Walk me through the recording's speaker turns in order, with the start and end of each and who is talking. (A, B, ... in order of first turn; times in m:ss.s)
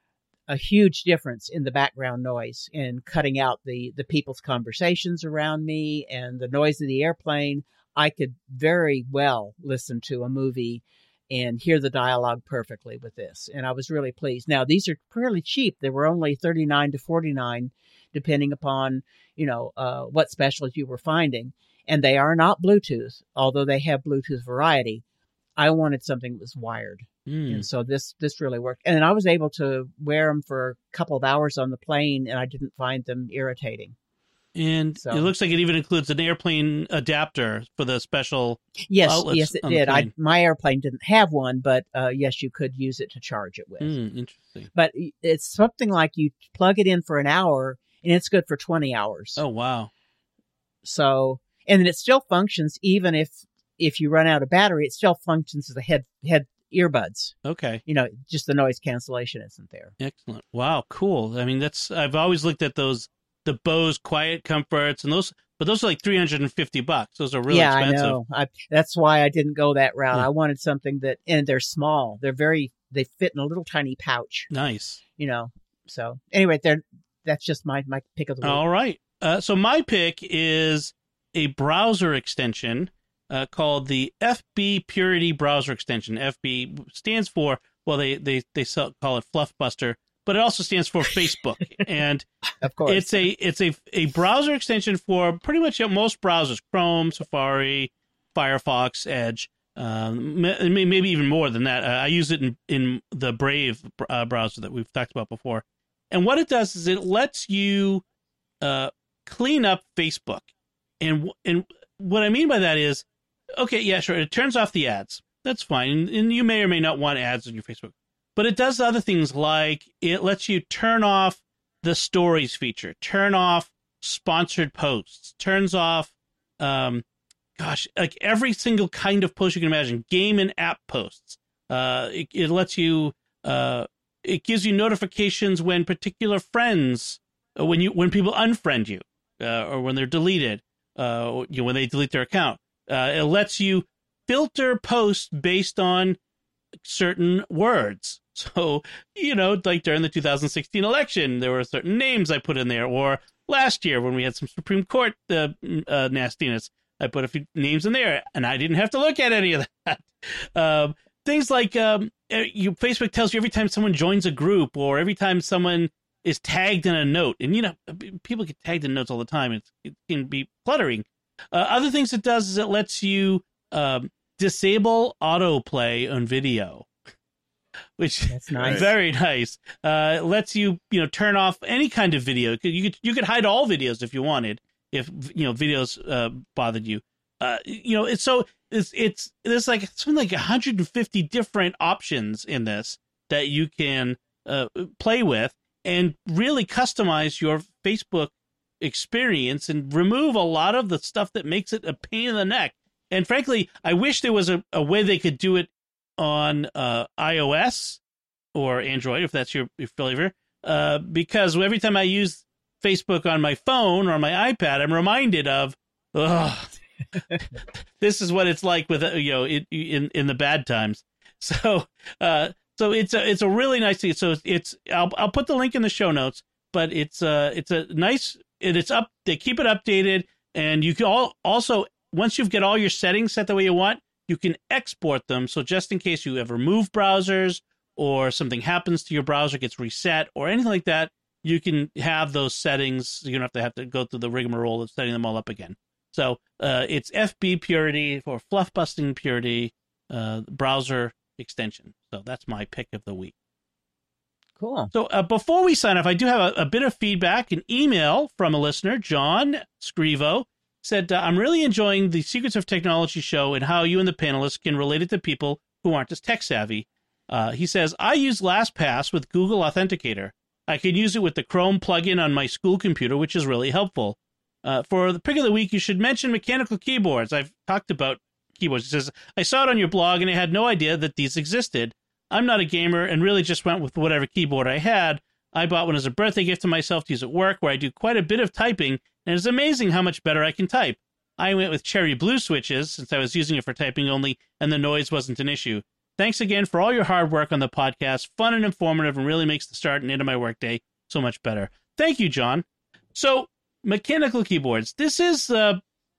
0:00.5-0:25.0 A
0:25.6-0:33.9 A
0:27.3-0:27.6 B
0:34.5-0:40.1 B
0:35.0-0:35.3 A
0:38.9-0:44.0 A
0:43.8-0:44.7 B
0:44.7-0:49.4 A
0:49.4-0:49.9 B
0:50.8-0:57.3 A
0:57.4-0:57.8 B
0:57.8-0:59.9 A
1:00.0-1:08.2 B
1:07.5-1:14.5 A
1:14.5-1:15.0 B
1:15.2-1:18.6 A
1:18.4-1:32.3 B
1:32.6-1:33.1 A
1:32.8-1:48.0 B
1:48.6-1:50.5 B
1:51.0-1:53.0 B
1:53.6-2:07.0 B
2:07.6-2:26.2 B
2:26.8-2:56.9 B
2:58.0-3:28.0 B
2:58.3-2:58.9 A
3:28.5-3:36.7 B
3:37.3-4:13.3 B
4:14.6-4:14.9 A
4:14.9-5:05.8 B